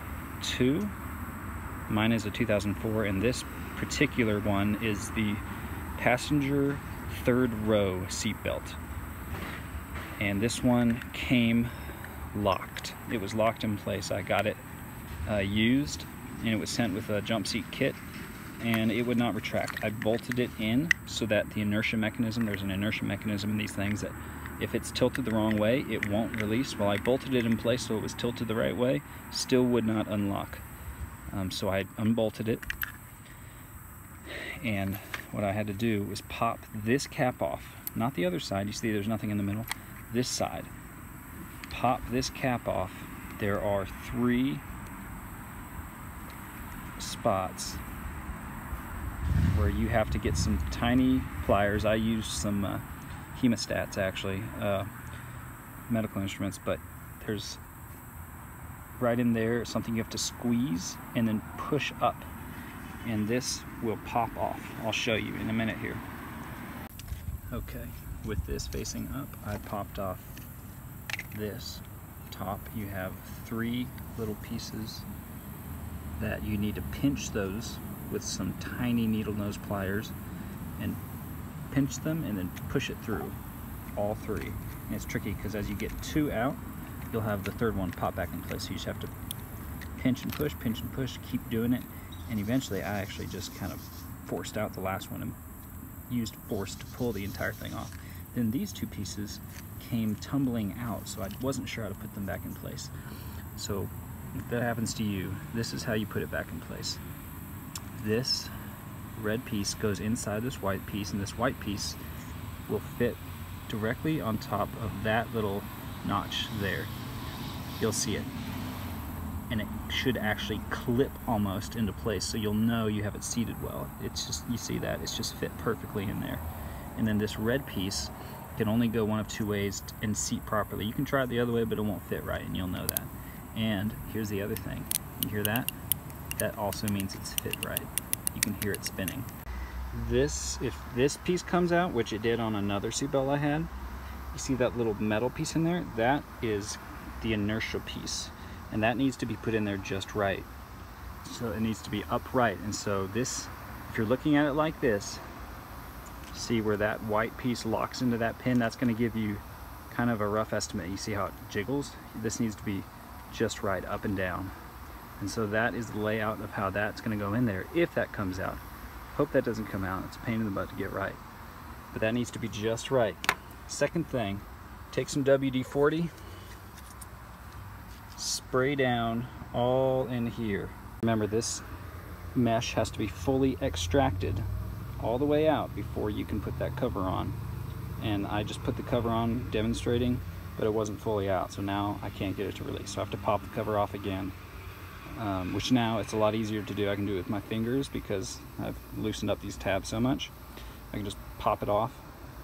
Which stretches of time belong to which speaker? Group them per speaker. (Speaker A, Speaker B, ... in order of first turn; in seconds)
Speaker A: 0.4-0.9, 1.9-5.4, 6.0-8.8, 10.2-11.7, 12.3-14.6, 15.2-18.0, 18.6-30.6, 31.3-32.6, 34.5-40.7, 41.7-44.6, 47.0-47.8, 49.5-54.9, 55.9-57.6, 59.0-62.3, 63.0-66.0, 67.5-70.3, 71.3-75.0, 76.2-80.1, 81.7-83.4, 83.9-89.1, 90.0-95.4, 96.1-102.9, 103.5-107.0, 107.9-108.5, 109.1-112.0, 112.7-116.9, 117.8-118.3, 119.5-126.4, 127.0-135.7, 136.3-139.3, 139.9-143.7, 144.3-150.5, 151.2-155.2, 156.3-164.5, 165.2-168.6, 169.1-171.2, 171.9-176.1, 178.1-181.7, 182.3-184.4, 185.0-187.4, 188.0-194.3, 195.1-200.3, 200.9-202.0